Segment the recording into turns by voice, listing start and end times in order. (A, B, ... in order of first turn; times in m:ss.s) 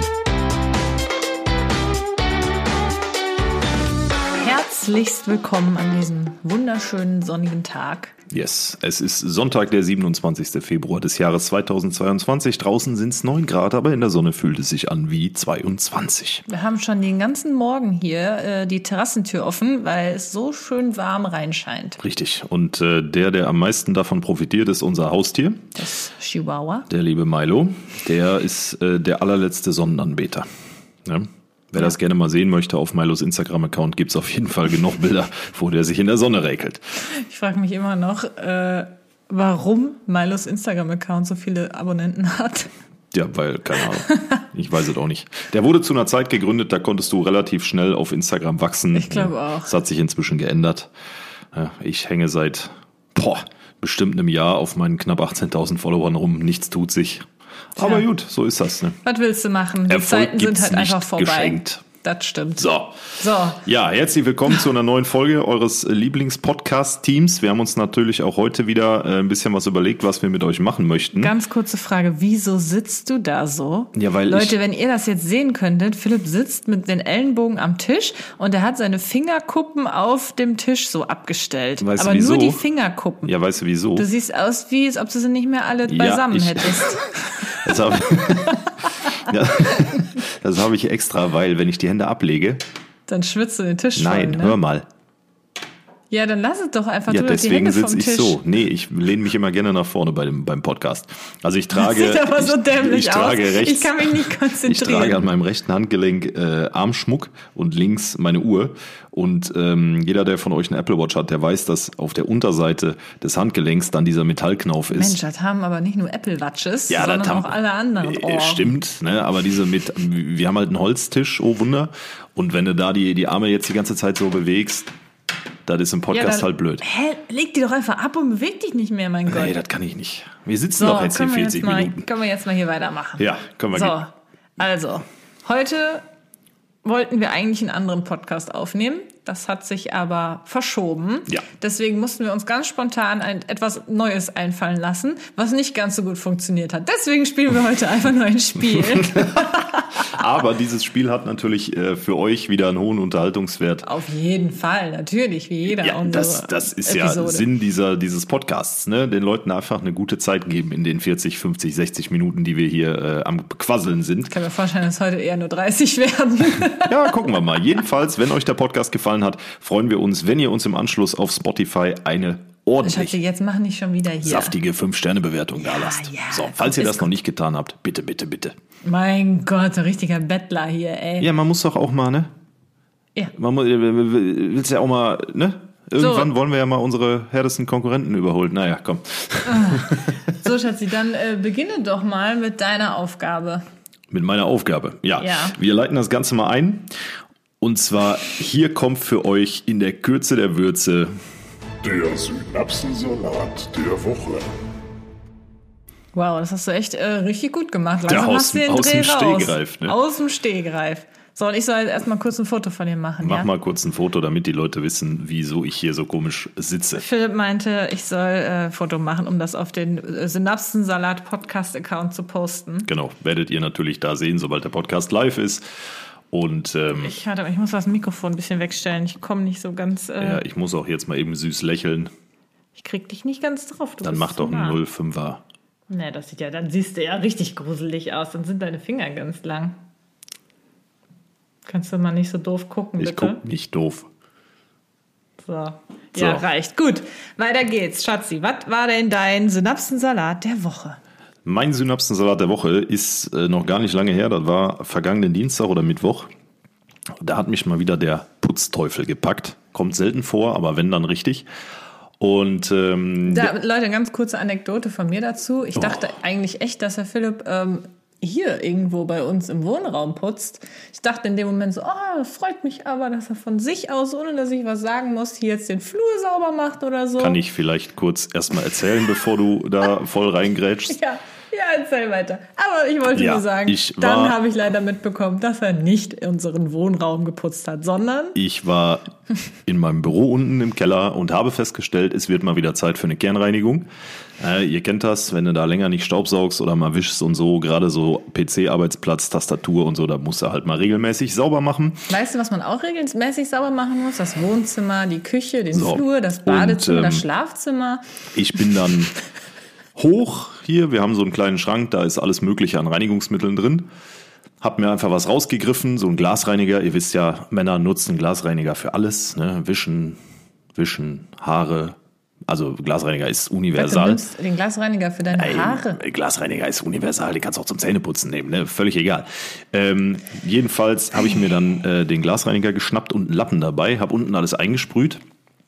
0:04.4-0:08.2 A
0:08.3-0:16.4 B
0:16.5-0:22.0 A
0:22.0-0:25.7 B
0:25.8-0:26.9 A
0:26.9-0:30.5 B
0:31.0-0:36.8 B
0:37.1-0:42.7 A
0:43.1-0:50.9 B
0:48.9-0:49.7 A
0:51.5-0:59.0 B
0:57.8-0:58.0 A
0:59.0-1:03.6 A
0:59.9-1:01.8 B
1:02.6-1:11.3 B
1:11.2-1:23.3 A
1:14.0-1:14.6 B
1:21.8-1:22.6 B
1:23.2-1:24.1 B
1:24.0-1:27.8 A
1:25.9-1:27.0 B
1:27.5-1:32.6 B
1:33.1-1:34.6 A
1:34.0-1:34.9 B
1:36.1-1:38.4 A
1:37.1-1:55.2 B
1:41.7-1:45.3 A
1:54.9-1:58.7 A
1:56.9-2:04.9 B
2:05.7-2:06.8 B
2:06.1-2:09.6 A
2:09.3-2:12.0 B
2:10.8-2:16.0 A
2:13.2-2:14.0 B
2:16.8-2:30.1 A
2:28.9-2:33.9 B
2:33.8-2:37.4 A
2:35.7-2:44.3 B
2:44.3-2:47.2 A
2:46.8-2:53.2 B
2:52.8-2:54.6 A
2:54.2-2:58.6 B
2:55.6-2:57.1 A
2:58.8-3:01.3 A
3:01.2-3:02.3 B
3:03.4-3:10.1 B
3:06.0-3:06.3 A
3:09.5-3:13.6 A
3:14.1-3:16.9 B
3:15.2-3:15.6 A
3:17.6-3:21.2 B
3:21.8-3:24.5 C
3:26.1-3:33.5 A
3:28.1-3:30.0 B
3:33.2-3:37.0 B
3:37.0-3:42.9 A
3:42.9-3:45.6 B
3:46.3-3:47.2 B
3:47.0-3:50.4 A
3:50.2-3:52.1 B
3:52.8-3:54.8 A
3:54.0-3:55.4 B
3:55.9-3:59.8 A
4:01.6-4:03.4 A
4:03.0-4:04.1 B
4:05.4-4:11.0 A
4:06.2-4:06.4 B
4:11.4-4:16.3 B
4:17.2-4:21.5 B
4:22.2-4:23.5 B
4:23.3-4:37.4 A
4:37.2-4:41.0 B
4:40.9-4:48.4 A
4:43.1-4:44.4 B
4:48.4-4:49.1 B
4:49.7-4:53.9 B
4:54.4-5:02.1 B
5:02.1-5:08.0 A
5:05.7-5:07.3 B
5:08.3-5:09.2 B
5:10.0-5:13.9 B
5:14.6-5:20.2 B
5:20.8-5:22.0 B
5:22.5-5:24.2 B
5:23.8-5:26.0 A
5:25.3-5:35.2 B